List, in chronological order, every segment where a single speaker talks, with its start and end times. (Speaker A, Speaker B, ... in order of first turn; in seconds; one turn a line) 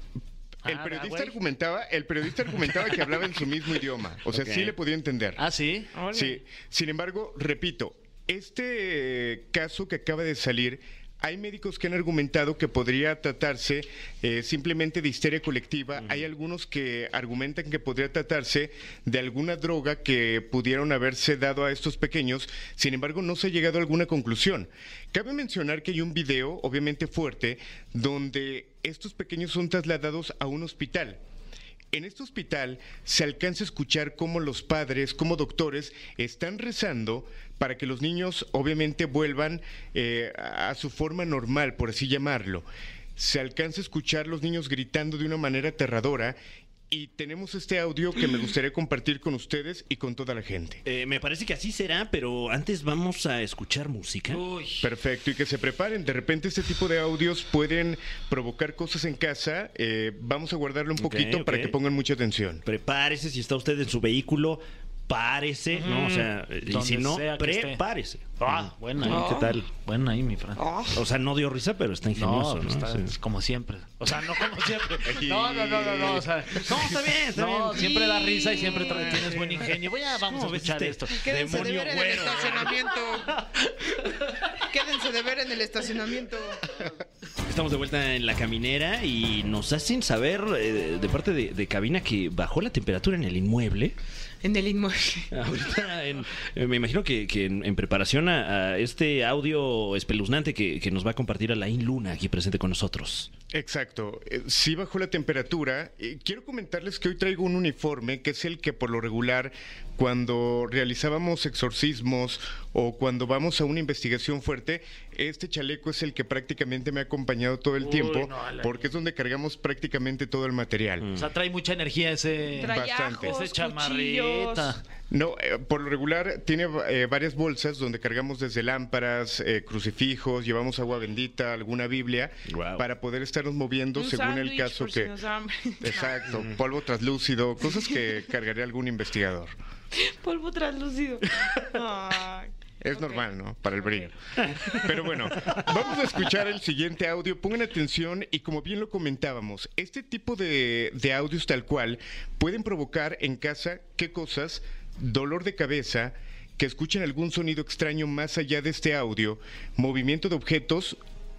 Speaker A: 0.6-1.4
Speaker B: 0.7-5.4
Speaker A: 4.3-4.7
Speaker A: 5.4-6.0
Speaker C: 5.9-6.4
Speaker B: 6.0-31.2
Speaker D: 16.0-16.3
Speaker B: 31.9-46.4
Speaker B: 46.9-50.8
Speaker D: 50.8-54.4
Speaker A: 54.3-54.9
Speaker B: 54.8-62.6
Speaker D: 61.0-61.8
Speaker D: 62.6-69.7
Speaker A: 65.7-67.8
Speaker A: 68.4-70.6
Speaker C: 69.0-69.6
Speaker C: 70.5-71.0
Speaker D: 70.9-73.1
Speaker A: 72.1-81.7
Speaker B: 75.0-76.6
Speaker D: 76.6-78.1
Speaker C: 77.8-79.2
Speaker D: 79.0-82.9
Speaker C: 81.2-83.3
Speaker C: 84.6-86.6
Speaker D: 87.4-93.9
Speaker C: 94.4-95.3
Speaker D: 95.3-103.3
Speaker B: 103.5-121.1
Speaker A: 117.8-118.9
Speaker D: 121.0-121.3
Speaker A: 121.1-124.8
Speaker C: 122.6-124.8
Speaker B: 122.6-123.4
Speaker B: 125.1-135.2
Speaker D: 132.5-132.8
Speaker C: 133.9-136.2
Speaker B: 135.8-139.5
Speaker D: 136.3-136.6
Speaker C: 139.9-143.2
Speaker B: 142.8-161.0
Speaker C: 143.8-144.1